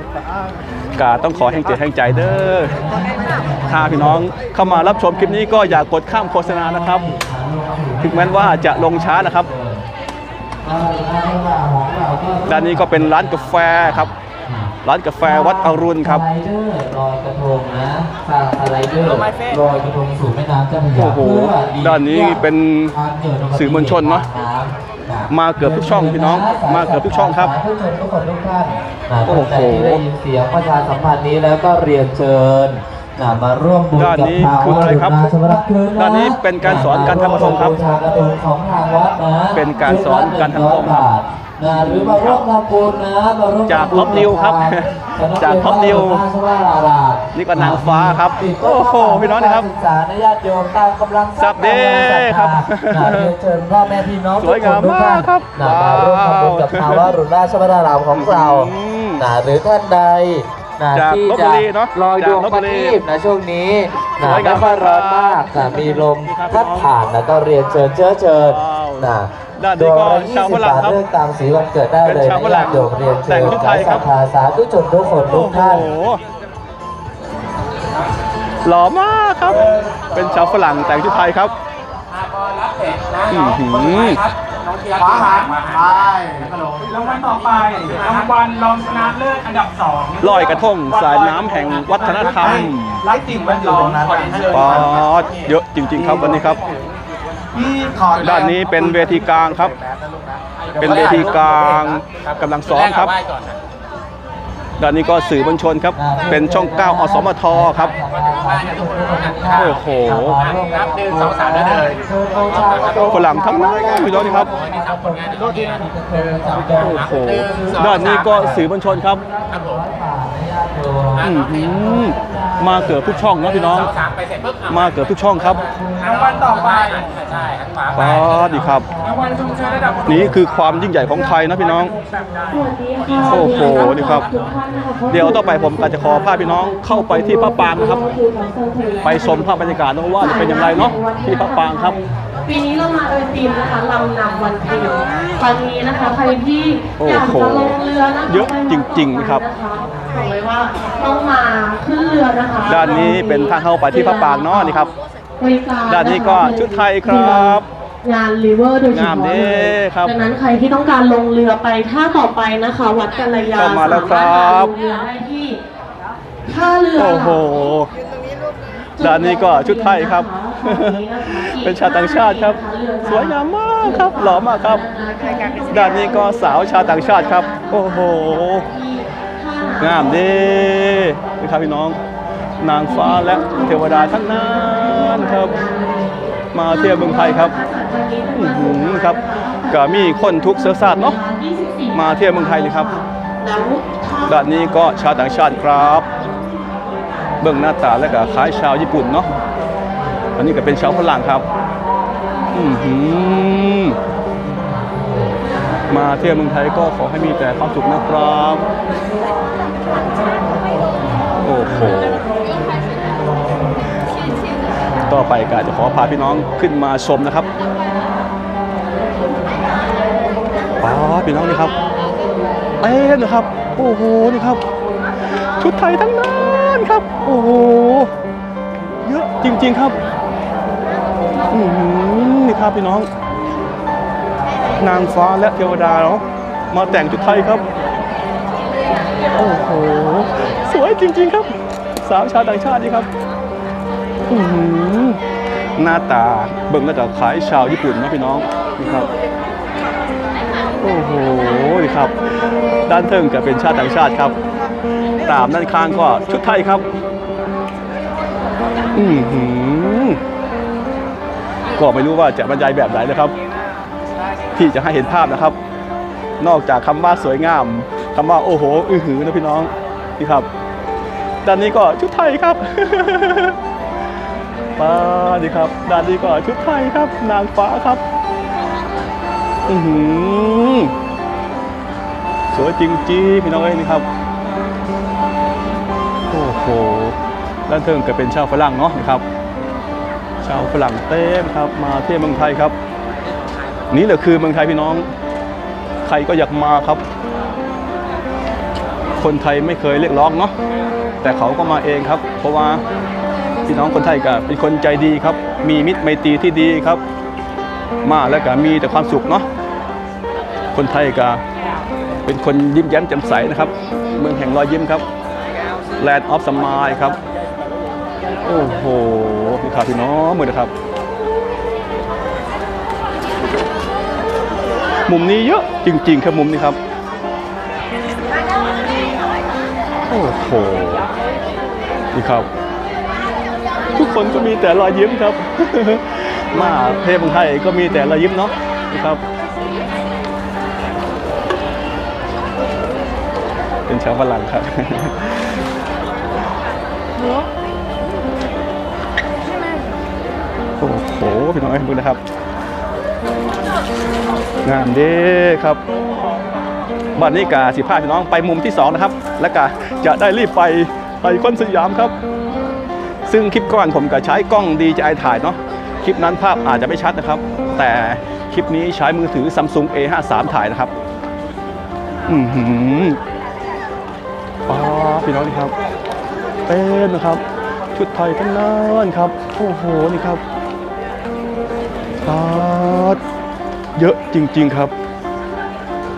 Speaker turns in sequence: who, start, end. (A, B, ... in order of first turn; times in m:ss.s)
0:00.9-0:02.8 A
0:02.0-0:09.8 B
0:03.6-0:07.1 A
0:08.0-0:09.5 A
0:10.6-1:15.9 B
0:12.5-0:14.1 A
0:14.8-0:16.2 A
0:19.2-0:19.5 C
0:20.9-0:22.9 A
0:23.5-0:24.2 A
0:25.3-0:27.5 A
0:29.2-0:30.0 A
0:34.0-0:35.3 A
0:36.0-0:37.8 A
0:39.5-0:41.1 A
0:41.6-0:42.4 A
0:43.7-0:46.2 A
0:47.3-0:49.7 A
0:51.4-0:53.3 A
0:54.4-0:57.1 A
0:58.1-0:59.2 A
1:00.9-1:03.0 A
1:04.2-1:06.9 A
1:08.3-1:11.0 A
1:12.0-1:14.1 A
1:15.3-1:16.2 A
1:18.6-1:21.5 A
1:19.4-1:21.5 C
1:19.5-1:20.9 D
1:22.1-1:29.7 C
1:23.3-1:24.2 A
1:25.0-1:36.6 D
1:30.2-1:35.5 C
1:30.2-1:33.0 A
1:34.5-1:36.6 A
1:36.1-1:36.8 C
1:37.5-1:41.6 D
1:38.2-1:39.7 A
1:40.6-1:43.6 C
1:40.8-1:43.1 A
1:44.8-1:47.9 A
1:45.9-2:03.3 B
1:47.8-1:58.7 C
1:49.5-1:50.4 A
1:52.6-1:53.0 D
1:52.9-1:54.5 A
1:53.5-1:54.3 D
1:55.4-1:55.8 D
1:56.8-1:59.2 A
1:59.5-1:59.8 C
2:01.2-2:02.1 C
2:01.2-2:03.9 A
2:02.7-2:10.3 C
2:04.7-2:05.6 A
2:05.5-2:06.9 B
2:06.4-2:07.1 D
2:07.9-2:08.9 A
2:08.0-2:11.4 B
2:10.0-2:11.9 A
2:11.9-2:12.6 C
2:12.5-2:45.6 E
2:13.1-2:14.4 C
2:13.2-2:14.3 A
2:15.1-2:18.2 A
2:19.0-2:22.0 A
2:27.0-2:29.4 A
2:32.6-2:34.9 A
2:35.9-2:37.7 A
2:38.9-2:40.1 A
2:43.6-2:44.7 A
2:46.5-2:47.5 E
2:47.0-2:47.9 A
2:49.0-3:00.8 E
2:49.0-2:54.8 A
2:55.7-2:58.6 A
2:59.8-3:02.0 A
3:02.6-3:05.6 A
3:02.8-3:16.5 E
3:06.5-3:07.5 A
3:08.3-3:09.2 A
3:09.7-3:11.2 A
3:11.9-3:12.9 A
3:14.2-3:16.1 A
3:17.2-3:19.4 E
3:17.4-3:19.3 A
3:20.4-3:21.4 A
3:22.5-3:24.0 A
3:24.4-3:25.4 B
3:25.9-3:28.7 A
3:30.4-3:32.0 B
3:31.4-3:32.2 A
3:32.6-3:34.1 B
3:34.9-3:36.2 B
3:35.1-3:37.5 A
3:40.8-3:41.7 A
3:42.8-3:44.6 A
3:45.6-3:48.1 A
3:49.0-3:50.0 A
3:51.5-3:53.1 A
3:54.8-3:57.6 A
3:59.3-4:03.1 A
4:04.3-4:05.2 A
4:05.8-4:09.1 A
4:10.8-4:12.1 A
4:12.9-4:14.4 A
4:15.2-4:16.8 A
4:18.9-4:20.2 A
4:21.7-4:23.3 A
4:24.5-4:25.6 A
4:26.4-4:30.5 A
4:31.4-4:33.6 A
4:34.8-4:38.0 A
4:39.7-4:40.9 A
4:42.5-4:44.0 A
4:46.3-4:47.2 A
4:47.7-4:49.2 A
4:50.4-4:52.7 A
4:53.9-4:55.1 A
4:56.0-4:57.0 A
4:59.2-5:00.5 A
5:01.2-5:02.8 A
5:03.6-5:07.0 A
5:08.0-5:09.4 A
5:10.7-5:11.4 A
5:12.2-5:15.0 A
5:16.0-5:17.2 A
5:18.4-5:20.7 A
5:25.1-5:26.8 A
5:30.1-5:31.1 A
5:32.1-5:32.5 A
5:33.9-5:39.2 A
5:43.9-5:45.5 A
5:50.8-5:52.2 A
5:54.6-5:55.8 A
5:57.2-6:02.1 A
6:03.2-6:10.9 A
6:12.3-6:13.2 A
6:14.7-6:15.7 A
6:16.7-6:17.4 A
6:17.9-6:20.4 A
6:22.2-6:23.2 A
6:24.0-6:24.9 A